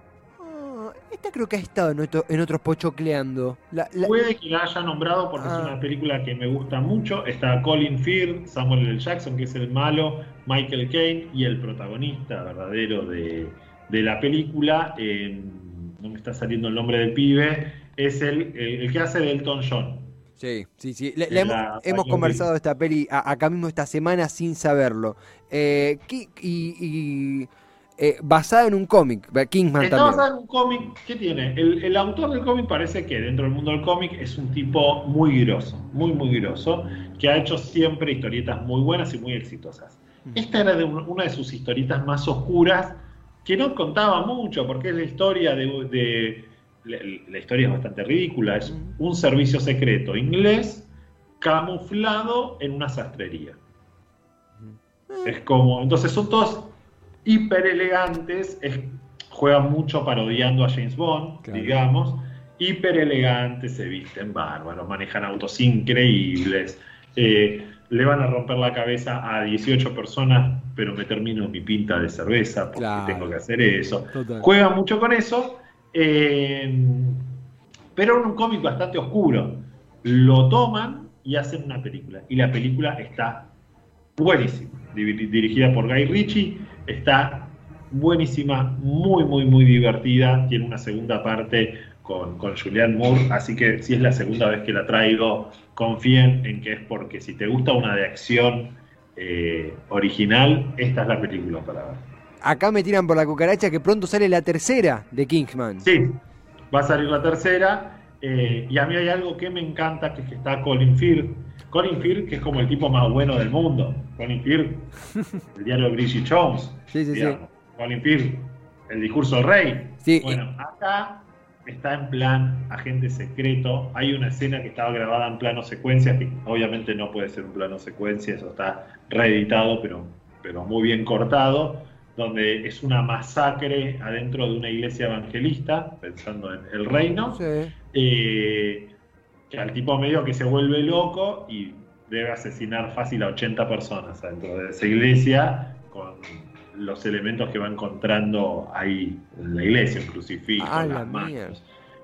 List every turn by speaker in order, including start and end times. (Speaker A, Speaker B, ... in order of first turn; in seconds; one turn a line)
Speaker A: 0.4-4.1
Speaker B: 4.0-20.2
Speaker A: 5.4-5.8
Speaker A: 20.4-30.3
Speaker B: 21.3-22.5
Speaker B: 29.8-53.6
Speaker A: 54.6-55.4
Speaker B: 55.2-77.2
Speaker A: 61.4-61.8
Speaker A: 72.8-73.4
Speaker A: 74.1-74.5
Speaker B: 78.0-83.5
Speaker B: 84.2-102.1
Speaker A: 102.4-105.8
Speaker B: 105.8-106.2
Speaker B: 106.7-114.9
Speaker B: 115.5-137.4
Speaker A: 116.9-117.4
Speaker A: 120.0-120.4
Speaker A: 137.3-137.7
Speaker B: 137.9-138.9
Speaker B: 139.5-151.6
Speaker A: 150.6-151.6